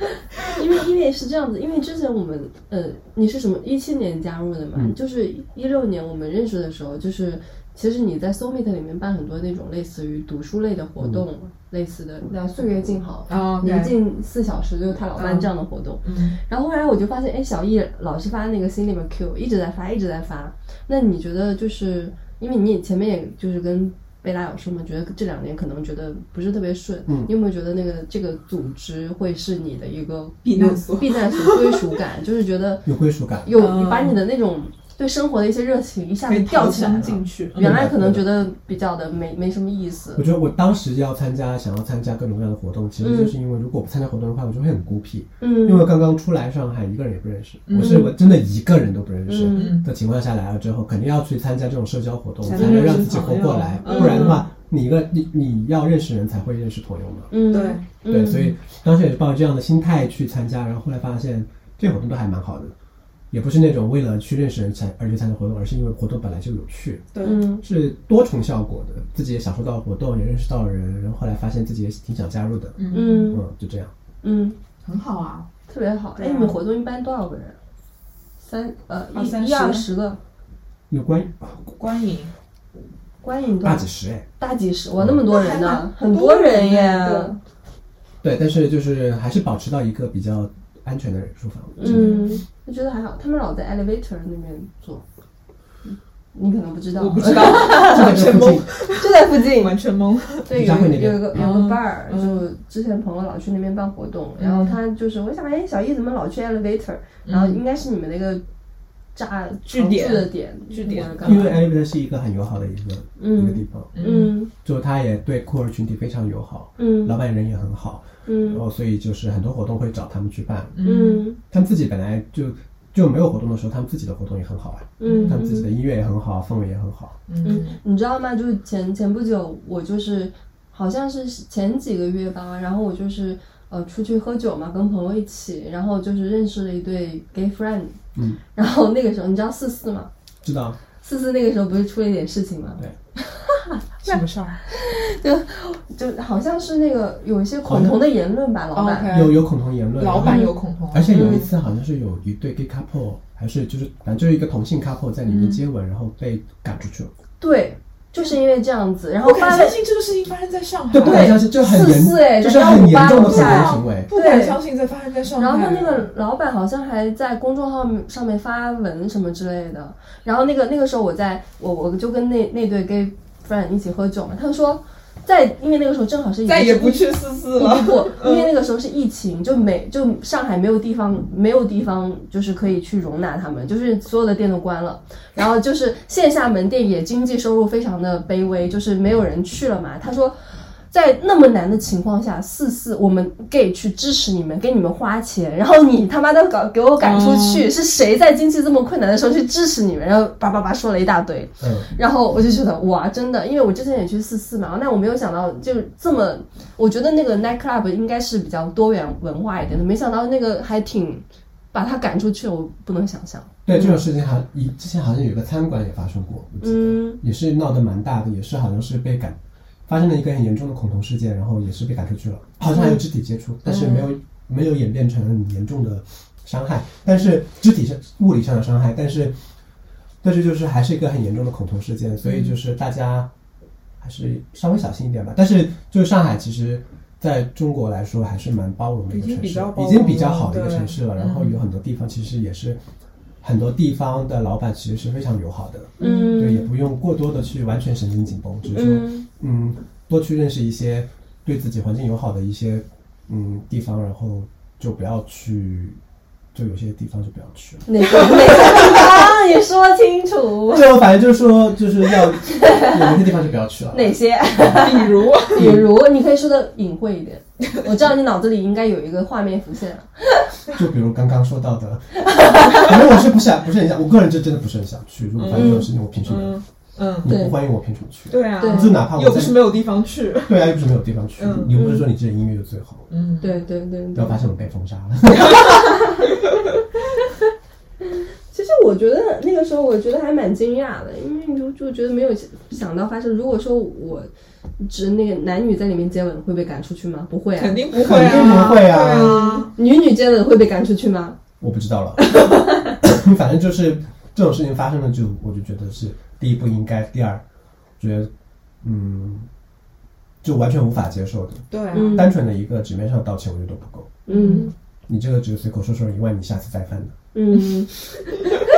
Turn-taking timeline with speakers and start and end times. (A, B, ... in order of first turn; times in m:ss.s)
0:00.5-0:32.9 A
0:13.3-0:14.0 B
0:15.2-0:15.5 B
0:16.0-0:16.4 B
0:27.1-0:27.3 C
0:30.4-0:31.9 B
0:32.8-0:33.5 C
0:33.4-0:40.2 A
0:33.6-0:34.2 B
0:36.3-0:37.7 B
0:37.6-0:38.3 C
0:40.2-0:57.3 C
0:43.0-0:43.3 A
0:45.4-0:45.9 A
0:47.7-0:48.1 B
0:47.8-0:48.1 A
0:49.3-0:49.7 A
0:49.5-0:49.9 B
0:52.4-0:54.5 B
0:52.5-0:53.0 A
0:53.8-0:54.4 A
0:57.3-0:58.5 A
0:57.5-0:57.8 B
0:58.1-1:02.8 C
1:03.3-1:07.1 C
1:07.1-1:07.4 B
1:07.2-1:07.6 A
1:07.6-1:13.9 C
1:12.8-1:13.3 B
1:12.9-1:13.4 A
1:14.2-1:14.6 A
1:14.8-1:15.5 B
1:15.7-1:17.6 A
1:16.2-1:16.6 B
1:18.4-1:20.2 A
1:19.1-1:19.9 B
1:20.9-1:21.7 C
1:21.7-1:22.3 B
1:23.2-1:23.9 A
1:23.6-1:24.3 C
1:24.4-1:27.4 A
1:25.3-1:27.4 B
1:28.2-1:32.1 C
1:31.8-1:35.0 A
1:31.8-1:32.4 B
1:36.3-1:39.8 A
1:37.0-1:42.4 B
1:37.4-1:38.7 C
1:40.5-1:48.4 A
1:40.5-1:41.3 C
1:44.4-1:44.8 B
1:47.2-1:47.6 B
1:49.2-1:51.6 A
1:49.7-1:51.6 B
1:51.2-1:53.9 C
1:53.2-1:54.5 A
1:53.9-1:54.4 B
1:54.6-2:00.8 C
1:56.8-1:57.2 A
1:58.3-1:58.6 A
2:00.8-2:01.2 B
2:00.8-2:01.4 A
2:01.5-2:07.2 C
2:05.0-2:05.7 A
2:05.0-2:05.4 B
2:07.3-2:07.8 B
2:07.4-2:18.0 A
2:18.2-2:18.4 C
2:18.5-2:20.1 A
2:20.4-2:20.8 C
2:21.0-2:29.1 A
2:24.0-2:24.6 B
2:27.6-2:28.0 C
2:28.7-2:29.4 B
2:29.1-2:37.1 C
2:30.0-2:31.5 B
2:30.2-2:30.6 A
2:35.3-2:35.6 B
2:37.4-2:39.8 A
2:39.2-2:41.5 B
2:40.9-2:44.1 C
2:41.0-2:44.6 A
2:42.9-2:46.1 B
2:45.4-3:34.0 A
2:56.4-2:58.5 B
3:17.0-3:17.7 B
3:21.6-3:21.9 C
3:33.7-3:49.4 C
3:36.6-3:37.2 A
3:43.6-3:44.1 B
3:50.2-3:53.3 C
3:52.2-3:52.6 B
3:54.0-4:02.8 C
3:59.1-4:01.6 B
4:03.4-4:16.0 C
4:06.0-4:06.5 B
4:06.0-4:06.7 A
4:08.7-4:09.3 A
4:16.5-4:18.9 C
4:17.9-4:21.0 A
4:18.0-4:19.1 B
4:20.7-4:24.2 C
4:22.4-4:23.0 A
4:23.9-4:30.5 A
4:24.6-4:25.7 B
4:25.5-4:25.9 C
4:30.7-4:36.6 C
4:32.4-4:32.8 A
4:35.4-4:37.3 B
4:35.5-4:35.9 A
4:37.2-4:39.8 C
4:37.3-4:37.5 A
4:38.3-4:40.7 B
4:38.6-4:39.0 A
4:40.4-4:43.1 C
4:41.4-4:41.7 B
4:41.8-4:42.0 A
4:43.1-4:43.6 B
4:43.4-4:44.4 A
4:44.2-4:45.8 C
4:45.4-4:46.1 B
4:45.6-4:46.3 A
4:48.5-5:01.4 A
4:57.6-4:59.7 B
4:57.9-4:59.6 C
5:01.6-5:07.4 C
5:02.4-5:02.9 A
5:08.0-5:08.3 C
5:08.8-5:09.5 C
5:10.4-5:14.2 C
5:11.7-5:12.3 B
5:11.9-5:12.3 A
5:14.3-5:14.7 A
5:14.3-5:14.7 B
5:15.1-5:17.2 C
5:17.3-5:18.7 A